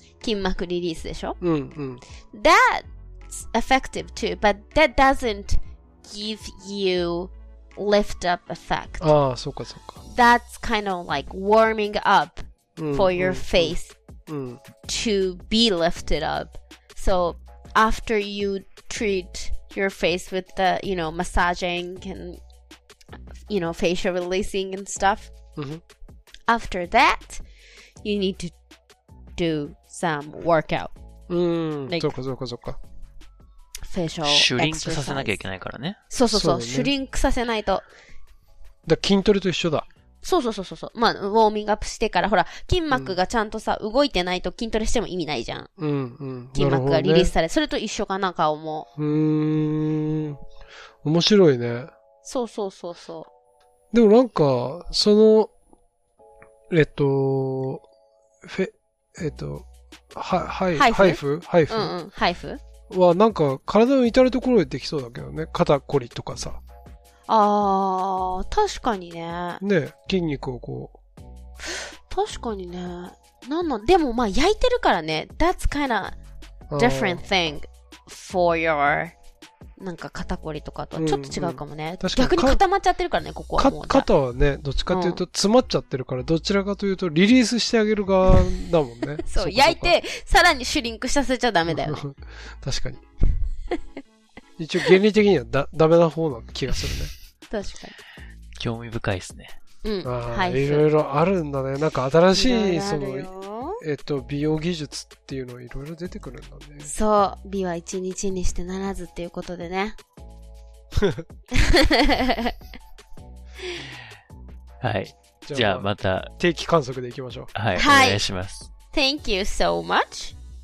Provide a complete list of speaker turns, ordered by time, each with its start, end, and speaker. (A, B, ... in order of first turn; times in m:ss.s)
0:00.2-0:01.4 A
0:01.4-0:02.0 B
0:02.3-0:09.0 A
0:09.0-0:10.0 B
0:10.0-0:13.9 A
0:12.8-0:13.8 B
0:14.3-0:14.6 B
0:14.8-0:22.4 A
0:23.5-0:25.3 A
0:25.6-0:25.8 B
0:26.5-0:27.4 A
0:28.0-0:28.5 A
0:29.4-0:30.9 A
0:31.3-0:32.8 B
0:33.8-0:35.4 A
0:34.3-0:36.0 C
0:36.1-0:37.8 A
0:36.3-0:36.9 B
0:38.8-0:39.8 B
0:40.2-0:45.7 A
0:42.9-0:43.2 B
0:45.8-0:47.3 B
0:46.5-0:48.9 A
0:49.0-0:50.4 B
0:51.0-0:51.9 B
0:52.2-0:53.3 A
0:53.9-0:55.5 B
0:56.7-0:57.8 B
0:58.4-1:01.9 B
1:00.7-1:02.6 A
1:02.9-1:06.6 B
1:07.3-1:09.6 A
1:09.6-1:11.0 B
1:11.6-1:16.1 A
1:16.7-1:17.2 B
1:16.8-1:19.1 A
1:19.8-1:24.1 A
1:21.0-1:22.6 B
1:23.6-1:29.9 B
1:24.9-1:25.2 A
1:29.2-1:32.0 A
1:31.7-1:33.0 B
1:34.6-1:37.1 B
1:37.5-1:38.0 A
1:38.6-1:39.6 C
1:39.8-1:40.8 A
1:40.0-1:46.9 B
1:42.3-1:43.8 A
1:46.8-1:50.0 A
1:50.9-1:51.2 B
1:51.5-1:52.5 A
1:54.8-1:56.3 C
1:55.4-1:55.9 B
1:56.4-1:57.5 B
1:57.5-1:58.7 C
1:57.7-1:58.2 A
1:58.9-2:00.3 A